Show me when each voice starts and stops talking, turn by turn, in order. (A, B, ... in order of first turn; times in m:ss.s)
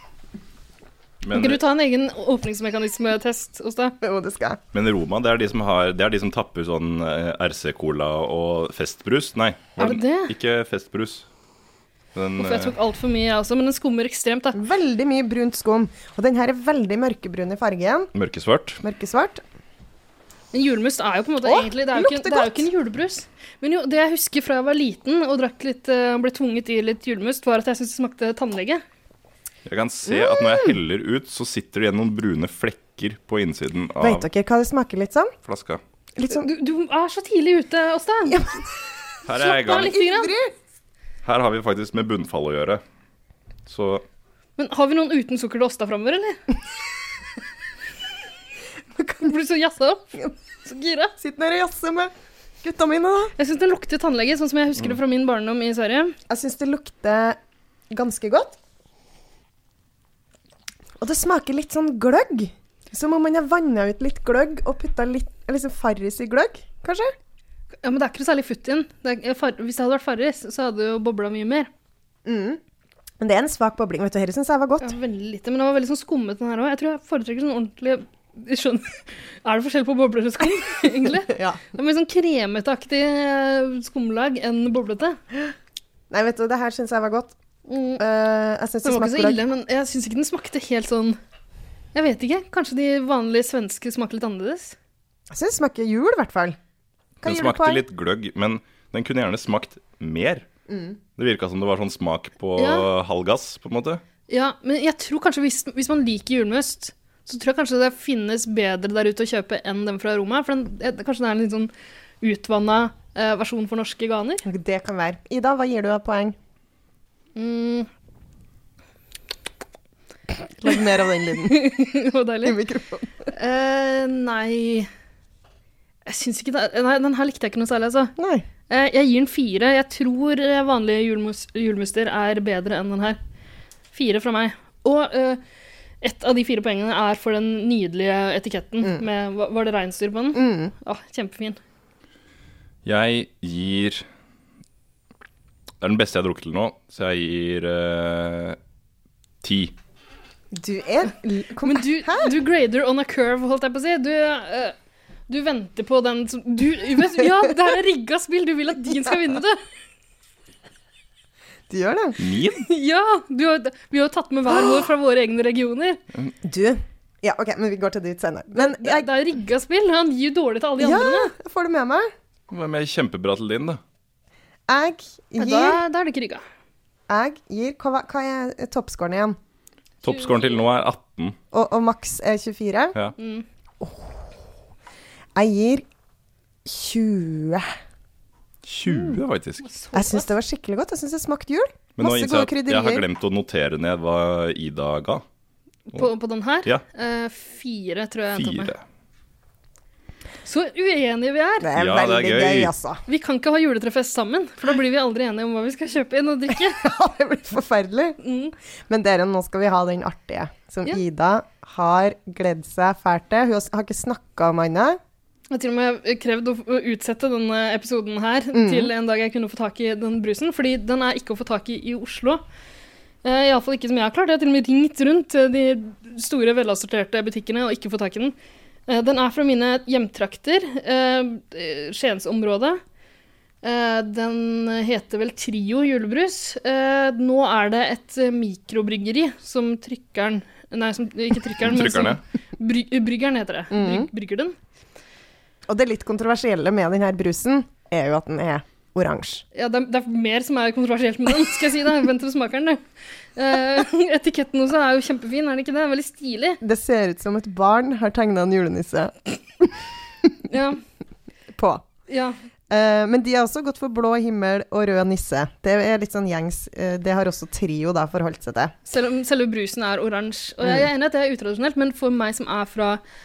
0:01.2-0:01.6 A
0:01.3-0:04.0 B
0:04.0-0:04.6 C
0:04.7-0:11.2 A
0:09.8-0:10.3 B
0:12.1-0:12.7 A
0:12.4-0:14.6 B
0:14.5-0:18.1 C
0:18.1-0:18.8 A
0:18.8-0:19.4 C
0:20.5-0:28.8 B
0:21.4-0:22.7 C
0:29.6-0:34.3 A
0:30.1-0:30.8 C
0:34.0-0:35.3 C
0:35.4-0:35.8 A
0:36.2-0:36.5 C
0:36.3-0:38.5 B
0:38.3-0:38.6 C
0:39.2-0:40.0 A
0:39.3-0:40.5 C
0:39.4-0:40.3 B
0:41.2-0:42.8 A
0:43.7-0:44.0 A
0:44.6-0:46.4 B
0:49.1-0:51.1 B
0:51.2-0:52.1 C
0:52.6-0:53.3 C
0:53.4-0:56.2 B
0:56.3-0:57.4 C
0:57.9-0:58.6 C
1:01.0-1:07.1 C
1:07.8-1:11.7 B
1:12.2-1:12.6 C
1:13.2-1:14.9 C
1:14.8-1:25.2 B
1:21.3-1:21.6 C
1:26.1-1:27.3 C
1:27.7-1:28.0 B
1:28.0-1:29.4 C
1:28.8-1:31.2 B
1:31.9-1:34.8 B
1:35.3-1:36.6 C
1:37.2-1:37.8 C
1:37.2-1:40.4 A
1:40.7-1:41.0 C
1:41.2-1:44.0 A
1:42.6-1:42.9 B
1:44.3-1:54.4 B
1:54.4-1:56.4 C
1:57.4-1:57.9 B
2:00.6-2:01.7 C
2:01.4-2:02.6 B
2:02.4-2:03.1 C
2:03.3-2:04.9 B
2:06.0-2:08.1 B
2:08.2-2:08.5 C
2:08.7-2:13.2 B
2:13.9-2:15.4 B
2:16.0-2:21.6 B
2:20.3-2:20.7 C
2:22.8-2:24.0 A
2:25.8-2:28.6 A
2:29.4-2:29.7 A
2:30.5-2:32.3 C
2:31.6-2:34.7 B
2:35.3-2:39.6 B
2:41.7-2:42.2 C
2:42.2-2:42.7 A
2:42.5-2:46.0 B
2:44.5-2:44.8 C
2:46.4-2:49.1 C
2:48.5-2:51.3 B
2:50.8-2:52.1 C
2:52.5-2:53.8 A
2:54.7-2:55.8 C
2:55.4-2:56.4 B
2:57.1-2:59.4 C
3:00.0-3:01.4 A
3:00.1-3:00.6 B
3:01.5-3:03.0 C
3:03.2-3:03.4 B
3:03.8-3:04.2 C
3:05.3-3:05.8 C
3:06.6-3:07.7 C
3:08.6-3:09.6 A
3:08.9-3:10.3 B
3:09.9-3:13.0 C
3:12.0-3:15.2 A
3:15.9-3:18.7 B
3:18.3-3:18.8 A
3:20.4-3:21.7 B
3:21.6-3:23.0 C
3:21.7-3:22.7 A
3:23.1-3:26.8 B
3:26.7-3:28.2 C
3:28.2-3:28.5 B
3:28.9-3:35.0 C
3:35.5-3:42.4 B
3:38.5-3:38.9 C
3:43.2-3:48.3 B
3:48.9-3:52.8 B
3:53.6-4:04.6 B
4:01.6-4:02.2 A
4:03.7-4:04.1 C
4:05.7-4:09.4 C
4:09.5-4:12.8 B
4:13.4-4:16.6 B
4:16.6-4:20.3 C
4:20.5-4:20.8 B
4:21.5-4:21.8 C
4:22.1-4:22.4 B
4:22.7-4:28.7 C
4:28.9-4:33.0 B
4:30.6-4:30.9 C